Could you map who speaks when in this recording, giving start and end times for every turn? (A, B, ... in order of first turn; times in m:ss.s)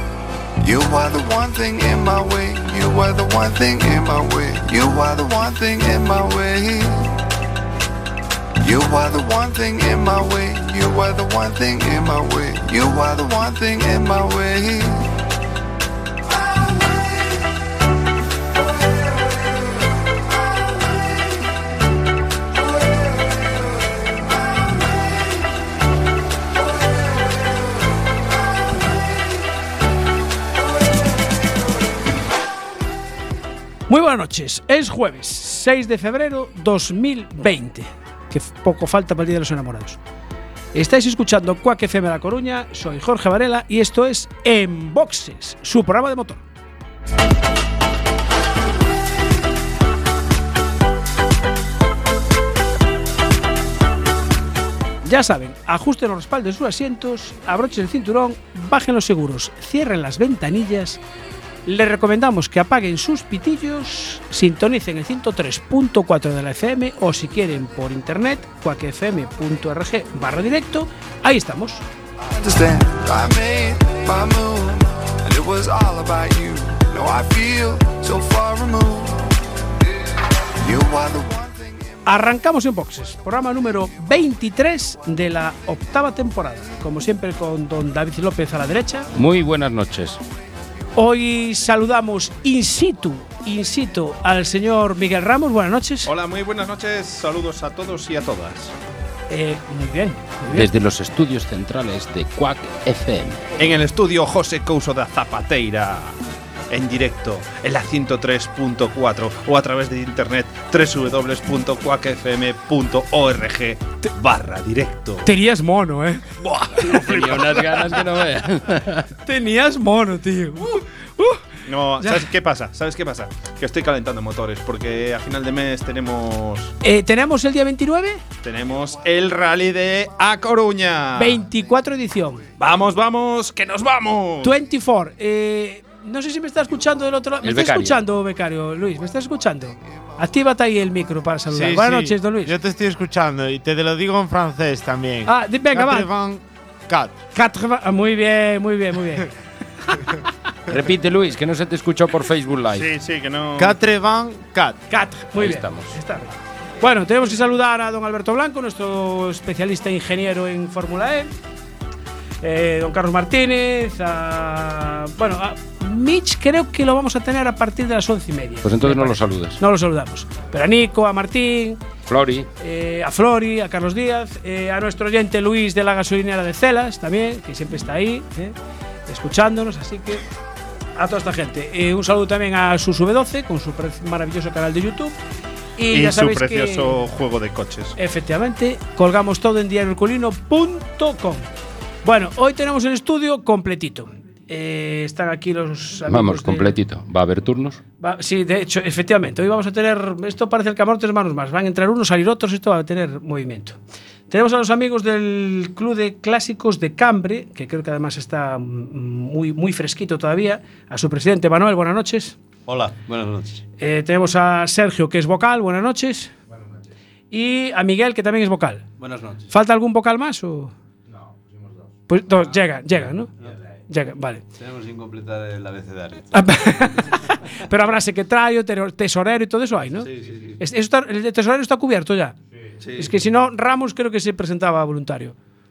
0:00.6-0:07.1 A
0:08.6-0:15.1 A
0:33.9-0:40.0 B
0:40.7-0:46.4 B
0:55.0-1:01.0 B
1:01.6-1:11.8 B
1:12.2-1:22.0 A
1:22.0-1:29.1 B
1:29.1-1:30.2 C
1:30.9-1:36.1 B
1:36.0-1:38.7 D
1:39.3-1:40.7 B
1:40.5-1:43.4 C
1:43.6-1:46.2 D
1:46.7-1:55.3 D
1:55.2-1:56.4 B
1:56.4-1:57.8 D
1:56.8-1:59.0 C
1:59.2-2:01.4 B
2:01.6-2:06.7 D
2:02.0-2:02.3 B
2:06.8-2:08.2 B
2:08.4-2:11.4 D
2:11.2-2:12.5 B
2:12.6-2:14.6 D
2:14.4-2:22.6 B
2:17.4-2:18.0 C
2:21.5-2:27.2 E
2:25.2-2:26.1 B
2:27.3-2:29.3 B
2:30.7-2:32.9 C
2:32.7-2:33.8 D
2:33.6-2:34.8 E
2:34.9-2:41.3 B
2:35.4-2:36.0 C
2:42.4-2:51.8 B
2:48.6-2:49.6 C
2:52.1-2:52.5 C
2:52.6-2:58.5 B
2:59.1-3:00.2 B
3:01.0-3:05.2 B
3:05.8-3:07.0 B
3:05.9-3:08.0 D
3:08.0-3:11.5 B
3:12.0-3:16.8 B
3:16.1-3:17.8 C
3:18.0-3:23.8 B
3:24.3-3:32.4 B
3:32.6-3:33.6 F
3:33.8-3:36.3 B
3:37.3-3:38.9 B
3:39.0-3:39.4 F
3:39.5-3:40.7 B
3:42.1-3:43.3 B
3:43.9-3:44.4 B
3:44.6-3:46.9 F
3:46.3-3:50.1 B
3:50.0-3:50.6 F
3:50.6-3:52.4 B
3:52.8-3:53.2 F
3:53.0-3:55.3 B